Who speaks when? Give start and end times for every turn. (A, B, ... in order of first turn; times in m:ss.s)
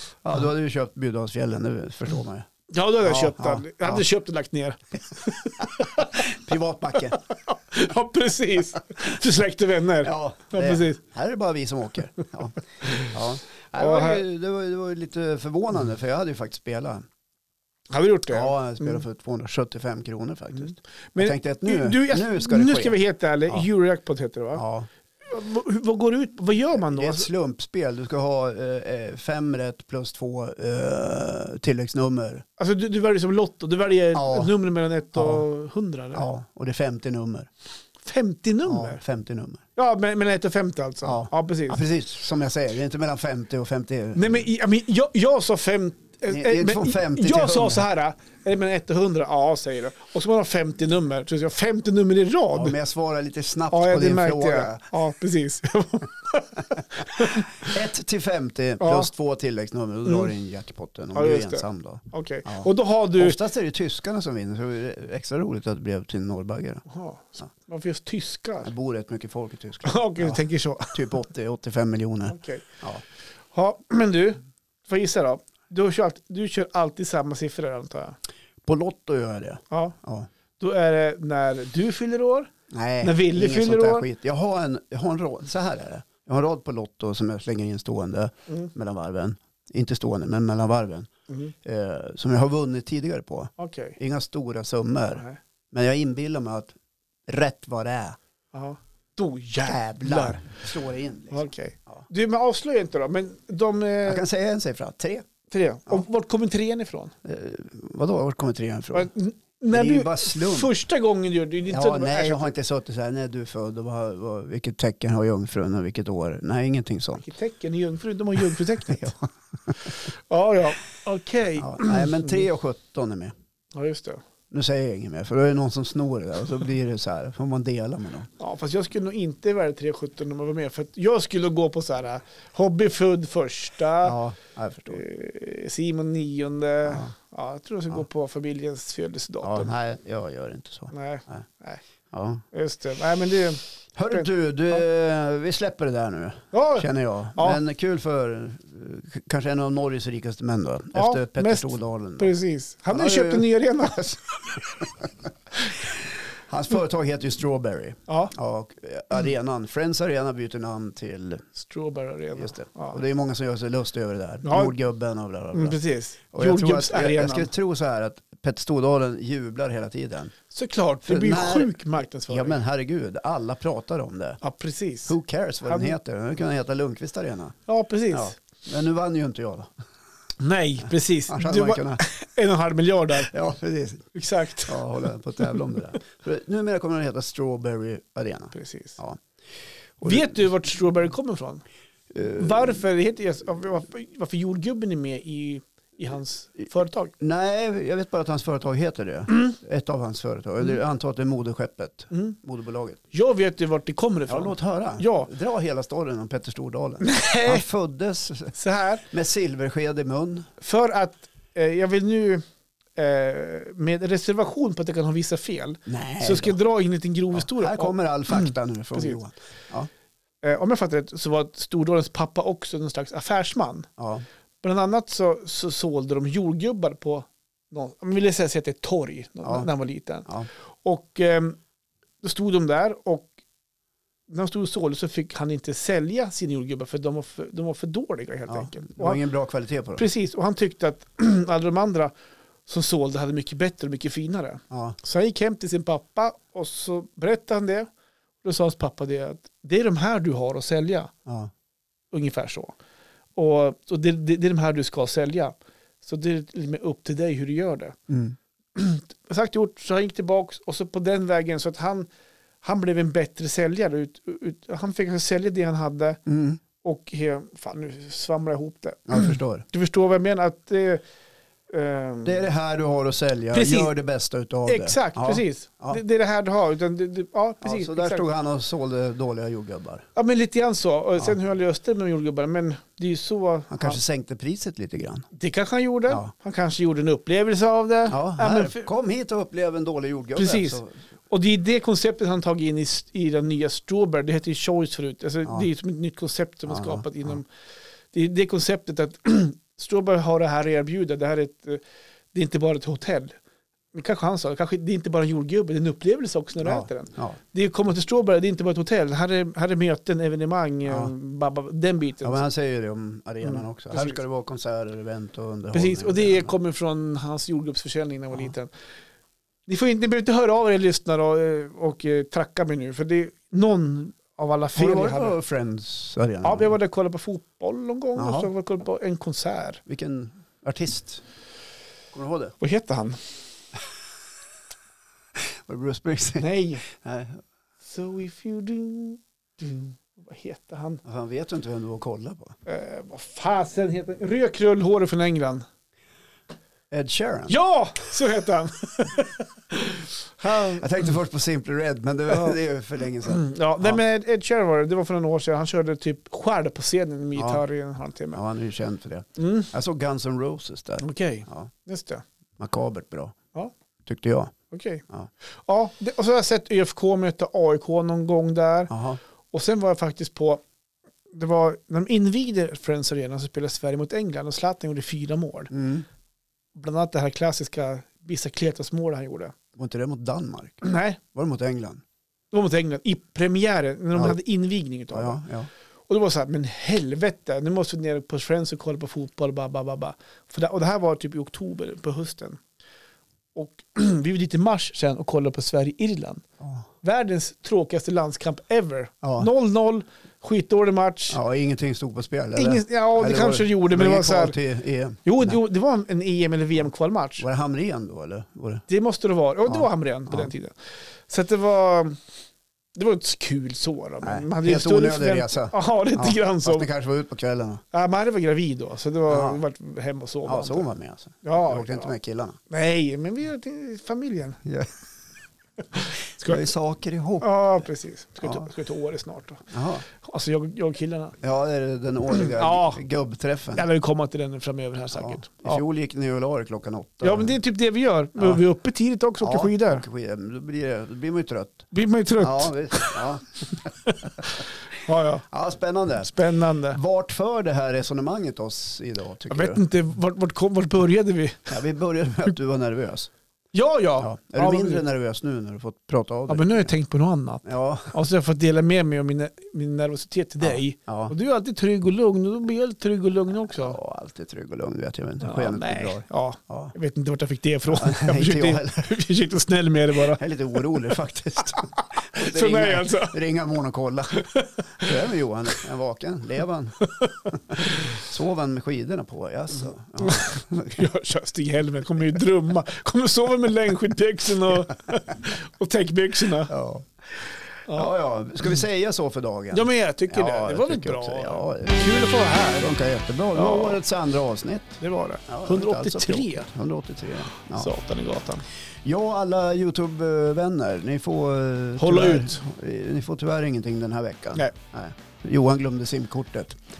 0:00.2-0:02.5 A
0:02.7-0:06.3 B
0:03.0-0:04.0 A
0:06.0-0:07.2 A
0:07.3-0:11.0 B
0:10.0-0:17.0 A
0:12.8-0:13.1 B
0:13.8-0:14.2 B
0:17.9-0:19.0 B
0:18.3-0:23.0 A
0:21.2-0:24.6 B
0:24.6-0:24.9 A
0:25.2-0:27.3 B
0:26.7-0:32.4 A
0:32.6-0:36.3 B
0:34.2-0:34.5 A
0:35.2-0:35.5 A
0:36.1-0:37.5 A
0:38.0-0:39.0 B
0:38.6-0:39.6 A
0:39.8-0:41.8 B
0:41.0-0:44.5 A
0:44.2-0:52.8 B
0:46.3-0:47.8 A
0:52.5-0:54.8 A
0:53.7-0:57.8 B
0:57.2-1:06.8 A
0:58.8-0:59.1 B
1:01.2-1:03.4 B
1:06.9-1:08.7 B
1:08.6-1:13.0 A
1:09.8-1:11.1 B
1:12.3-1:12.7 B
1:13.5-1:18.2 B
1:18.6-1:20.3 A
1:19.7-1:20.0 B
1:20.6-1:22.5 B
1:22.7-1:31.1 A
1:23.0-1:24.1 B
1:31.3-1:31.5 B
1:31.6-1:36.8 A
1:33.6-1:34.0 B
1:37.3-1:38.2 A
1:38.5-1:40.4 B
1:39.6-1:42.0 A
1:41.3-1:44.2 B
1:44.0-1:45.2 A
1:45.5-1:47.1 B
1:47.2-1:49.1 A
1:48.9-1:52.5 B
1:49.7-1:50.7 A
1:51.7-1:57.2 A
1:57.2-1:59.2 B
1:58.8-1:59.7 A
1:59.8-2:02.4 B
2:01.6-2:03.3 A
2:03.7-2:04.2 B
2:04.5-2:08.3 A
2:08.4-2:14.2 B
2:14.0-2:15.0 A
2:14.9-2:19.7 B
2:16.8-2:17.1 A
2:19.4-2:21.4 A
2:20.9-2:21.8 B
2:22.1-2:22.4 A
2:22.5-2:24.3 B
2:24.0-2:32.4 A
2:26.5-2:27.6 B
2:31.0-2:34.6 B
2:32.9-2:33.5 A
2:34.8-2:35.1 A
2:36.5-2:41.5 A
2:38.1-2:38.3 B
2:41.6-2:43.0 B
2:42.4-2:45.8 A
2:44.4-2:44.8 B
2:45.5-2:47.5 B
2:46.3-2:50.3 A
2:50.5-2:52.6 B
2:51.0-2:51.7 A
2:52.3-2:54.4 A
2:54.4-2:55.2 B
2:55.1-2:57.6 A
2:55.7-2:55.9 B
2:57.7-2:58.4 B
2:58.1-2:59.7 A
3:00.4-3:03.3 B
3:01.3-3:02.0 A
3:03.2-3:04.1 A
3:04.1-3:05.7 B
3:04.6-3:09.2 A
3:08.5-3:09.0 B
3:10.0-3:10.4 A
3:10.0-3:11.6 B
3:12.1-3:12.8 A
3:12.4-3:17.1 B
3:17.2-3:23.0 A
3:23.1-3:25.3 B
3:24.3-3:28.5 A
3:27.0-3:27.6 B
3:28.5-3:29.1 B
3:29.0-3:30.5 A
3:30.6-3:32.4 B
3:33.0-3:39.2 B
3:35.9-3:36.6 A
3:37.3-3:39.9 A
3:40.4-3:43.9 B
3:44.0-3:44.2 A
3:44.6-3:51.6 B
3:49.4-3:49.7 A
3:52.2-3:53.3 B
3:54.3-3:59.2 B
3:58.5-4:00.1 A
4:00.0-4:02.1 B
4:02.7-4:07.9 B
4:04.7-4:05.0 A
4:08.4-4:11.1 B
4:11.3-4:11.5 A
4:12.1-4:12.7 B
4:13.4-4:18.0 B
4:18.1-4:18.4 A
4:18.8-4:22.1 B
4:22.6-4:26.2 B
4:26.3-4:26.6 A
4:26.8-4:31.0 B
4:29.1-4:29.6 A
4:31.7-4:32.4 B
4:32.2-4:36.0 A
4:33.5-4:33.9 B
4:34.7-4:38.3 B
4:37.6-4:40.0 A
4:40.2-4:44.0 B
4:43.7-4:45.3 A
4:45.4-4:48.9 B
4:48.1-4:50.9 A
4:50.4-4:57.5 B
4:56.7-4:57.4 A
4:58.1-5:01.8 B
5:02.3-5:03.4 B
5:03.9-5:12.4 B
5:06.6-5:07.4 A
5:10.9-5:11.1 A
5:12.2-5:16.5 A
5:13.4-5:14.2 B
5:15.7-5:18.7 B
5:19.7-5:25.4 B
5:24.8-5:26.7 A
5:26.4-5:29.8 B
5:28.2-5:28.5 A
5:29.9-5:31.2 A
5:32.1-5:32.6 A
5:32.6-5:33.3 B
5:35.4-5:37.4 A
5:36.4-5:36.9 B
5:37.8-5:41.0 B
5:41.0-5:42.6 A
5:42.7-5:45.6 B
5:46.9-5:47.6 A
5:47.5-5:50.8 B
5:50.6-5:54.0 A
5:52.3-5:52.6 B
5:53.2-5:58.4 B
5:57.4-5:57.6 A
5:58.3-6:01.7 A
5:59.4-5:59.7 B
6:01.0-6:02.2 B
6:02.6-6:03.4 A
6:04.0-6:04.5 A
6:04.7-6:09.0 B
6:08.9-6:09.2 A
6:09.5-6:10.6 B
6:11.3-6:15.7 B
6:15.7-6:16.1 A
6:16.8-6:19.6 B
6:19.8-6:22.0 A
6:20.8-6:21.2 B
6:22.5-6:25.4 B
6:24.1-6:24.4 A
6:25.1-6:25.7 A
6:26.1-6:32.6 B
6:33.6-6:36.4 B
6:37.0-6:41.4 B
6:39.2-6:39.5 A
6:41.3-6:45.6 A
6:42.6-6:44.6 B
6:45.2-6:47.5 B
6:47.4-6:48.8 A
6:48.9-6:50.8 B
6:49.7-6:50.5 A
6:51.3-6:52.2 B
6:52.9-6:56.9 B
6:54.2-6:57.8 A
6:57.9-7:00.9 B
6:59.3-6:59.6 A
7:00.4-7:02.6 A
7:01.4-7:02.1 B
7:02.7-7:04.6 B
7:04.6-7:04.9 A
7:05.9-7:06.6 B
7:06.4-7:07.5 A
7:07.4-7:11.4 B
7:08.4-7:08.7 A
7:09.7-7:10.0 A
7:11.4-7:13.8 A
7:12.3-7:13.0 B
7:13.8-7:15.8 B
7:15.1-7:17.6 A
7:17.2-7:20.0 B
7:18.4-7:18.6 A
7:19.4-7:24.5 A
7:21.9-7:23.2 B
7:24.0-7:25.5 B
7:25.5-7:26.3 A
7:26.2-7:27.0 B
7:26.8-7:29.8 A
7:29.5-7:31.8 B
7:31.7-7:33.3 A
7:33.7-7:35.0 B
7:34.2-7:36.9 A
7:36.5-7:44.0 B
7:37.6-7:38.2 A
7:40.6-7:41.4 A
7:43.7-7:46.9 A
7:45.4-7:50.8 B
7:47.9-7:49.1 A
7:50.3-7:54.4 A
7:52.0-7:53.4 B
7:54.4-7:55.1 B
7:55.0-8:01.1 A
7:57.1-7:58.2 B
8:00.2-8:06.7 B
8:06.7-8:07.1 A
8:07.9-8:08.1 B
8:07.9-8:17.9 A
8:09.7-8:12.9 B
8:13.6-8:14.0 B
8:15.0-8:16.7 B
8:17.7-8:18.7 B
8:19.0-8:26.8 A
8:22.0-8:22.6 B